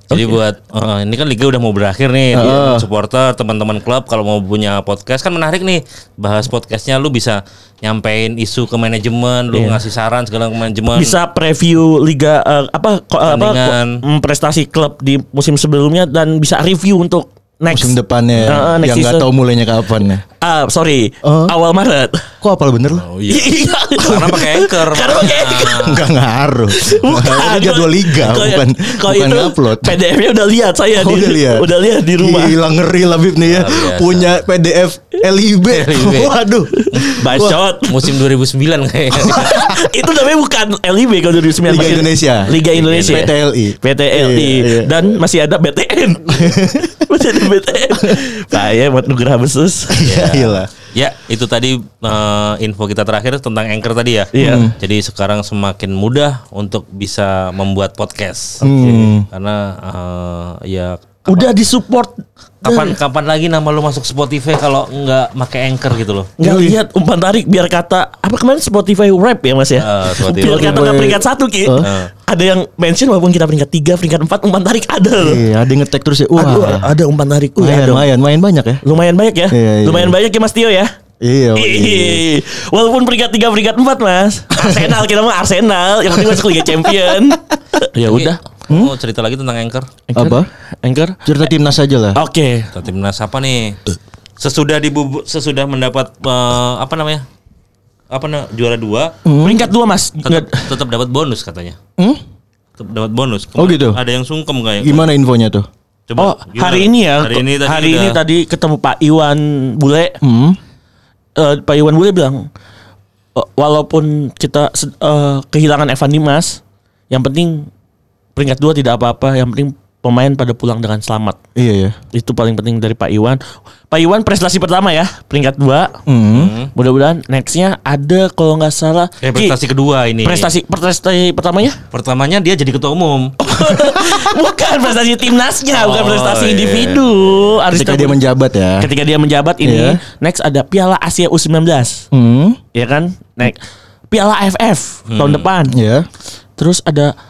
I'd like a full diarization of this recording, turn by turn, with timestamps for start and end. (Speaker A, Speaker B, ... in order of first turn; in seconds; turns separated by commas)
Speaker A: 0.1-0.3, Speaker B: 0.1-11.1, Speaker C: 2.3-2.9, Speaker A: 9.5-9.8, Speaker A: 10.9-19.3, Speaker B: 13.2-14.0, Speaker C: 17.7-20.2, Speaker B: 18.4-18.6, Speaker A: 20.4-22.3, Speaker C: 21.2-21.5, Speaker C: 22.4-23.0, Speaker B: 22.9-26.0, Speaker A: 23.3-25.9, Speaker C: 25.8-30.0, Speaker A: 26.7-32.6, Speaker C: 30.9-37.6, Speaker B: 33.5-34.3, Speaker B: 35.6-36.4, Speaker A: 36.7-38.1, Speaker B: 37.8-39.8, Speaker A: 39.2-50.0, Speaker C: 41.6-45.0, Speaker B: 42.5-43.3, Speaker C: 46.3-47.3, Speaker C: 47.9-48.2, Speaker C: 49.9-50.7, Speaker B: 50.0-61.5, Speaker A: 54.3-54.7, Speaker C: 54.4-54.7, Speaker C: 58.6-59.2, Speaker A: 61.3-63.0, Speaker B: 62.6-66.3, Speaker A: 66.4-75.4, Speaker C: 66.4-66.8, Speaker B: 69.8-71.1, Speaker C: 70.3-71.9, Speaker B: 71.8-72.1, Speaker C: 75.2-76.9, Speaker A: 76.3-78.1, Speaker C: 77.6-78.8, Speaker A: 78.8-80.9, Speaker C: 79.5-80.2, Speaker C: 81.2-82.2, Speaker A: 81.5-88.4, Speaker C: 84.5-84.9, Speaker C: 86.2-87.3, Speaker B: 88.0-89.9, Speaker A: 90.1-91.3, Speaker C: 90.2-90.5, Speaker C: 91.2-92.2, Speaker A: 92.1-92.7, Speaker B: 92.7-93.8, Speaker B: 94.4-97.2, Speaker B: 98.1-99.1, Speaker C: 99.2-99.7, Speaker A: 99.4-100.7, Speaker B: 100.2-101.8, Speaker B: 102.8-105.1, Speaker C: 103.6-104.0, Speaker C: 104.8-105.7, Speaker B: 106.1-108.2, Speaker A: 106.2-110.2, Speaker C: 110.2-110.6, Speaker A: 111.3-112.5, Speaker A: 113.3-117.7, Speaker A: 118.3-121.4, Speaker C: 121.5-122.0, Speaker A: 122.1-126.0, Speaker C: 126.0-126.5, Speaker B: 126.3-126.7, Speaker A: 126.7-129.6, Speaker B: 129.2-130.5, Speaker A: 130.2-131.8, Speaker B: 131.9-133.4, Speaker A: 133.4-138.2, Speaker B: 135.7-137.6, Speaker C: 137.7-138.9, Speaker A: 138.8-142.0, Speaker C: 139.6-140.0, Speaker C: 142.1-142.6, Speaker A: 142.7-145.7, Speaker B: 145.1-145.5, Speaker C: 145.7-146.1, Speaker A: 146.6-147.1